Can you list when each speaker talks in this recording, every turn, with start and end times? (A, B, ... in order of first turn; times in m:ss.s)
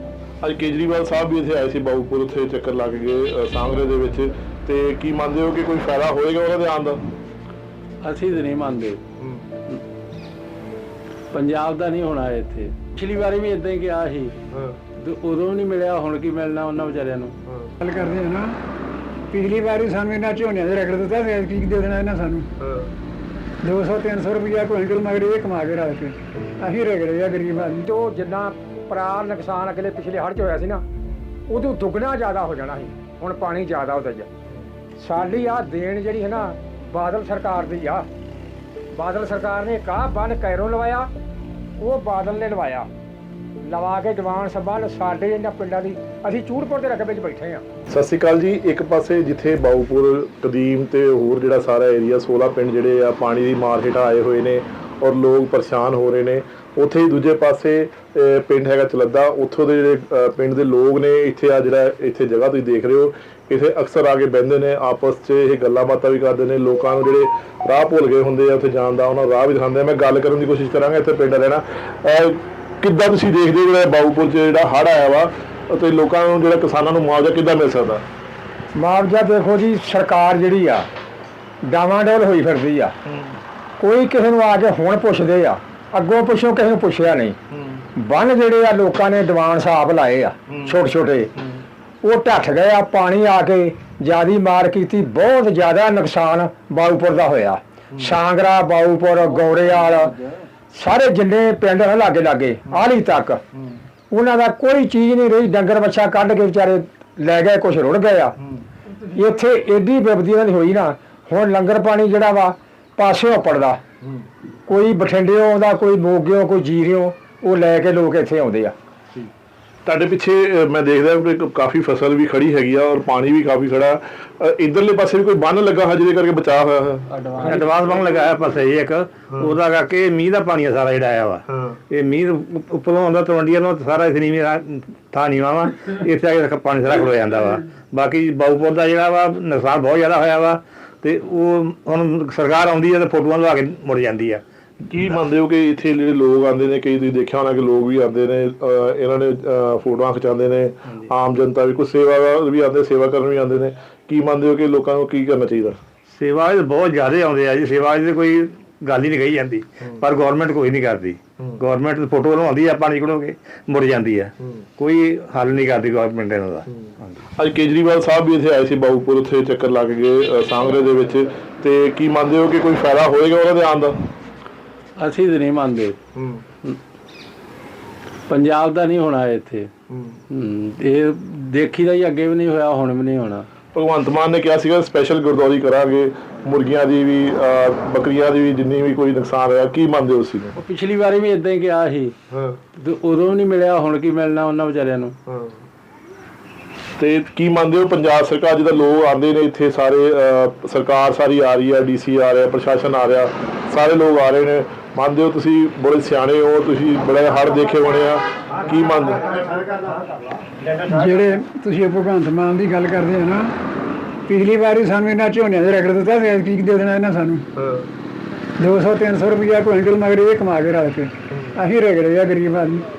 0:00.4-0:07.1 A
0:08.0-0:09.0 B
0:09.2-0:09.5 A
0:11.3-0:14.4 B
0:14.5-0:14.8 A
0:15.0-0:17.4 B
0:17.5-0:17.7 A
0:17.8-0:18.6 C
0:19.3-0:22.5 C
0:22.6-0:22.9 A
0:23.6-0:27.8 C
0:27.7-0:30.8 D
0:31.5-0:34.3 D
0:35.0-0:38.1 D
0:38.9-0:41.1 D
0:41.8-0:42.9 D
0:43.6-0:47.6 D
0:47.9-1:18.1 A
1:18.8-1:20.9 D
1:21.6-1:22.9 D
1:23.1-1:23.4 A
1:23.8-1:27.4 D
1:27.5-1:27.9 A
1:28.0-1:31.3 D
1:30.5-1:30.8 A
1:32.0-1:40.2 D
1:40.7-1:43.4 D
1:44.1-1:48.4 D
1:49.0-1:53.8 D
1:54.7-1:58.7 D
1:59.9-2:07.1 A
2:07.1-2:07.7 B
2:07.4-2:24.4 E
2:09.3-2:09.6 A
2:11.5-2:11.8 A
2:24.9-2:35.8 A
2:36.1-2:46.7 E
2:46.7-2:54.0 A
2:55.0-2:56.0 B
2:56.2-2:56.5 A
2:58.3-2:59.7 B
2:59.9-3:00.2 A
3:00.3-3:03.5 B
3:03.7-3:10.6 A
3:10.6-3:12.1 B
3:12.3-3:12.6 A
3:12.8-3:15.2 B
3:15.3-3:15.6 A
3:17.0-3:29.7 A
3:30.9-3:33.5 C
3:34.3-3:37.4 C
3:37.6-3:37.9 A
3:38.6-3:42.8 C
3:41.3-3:41.6 A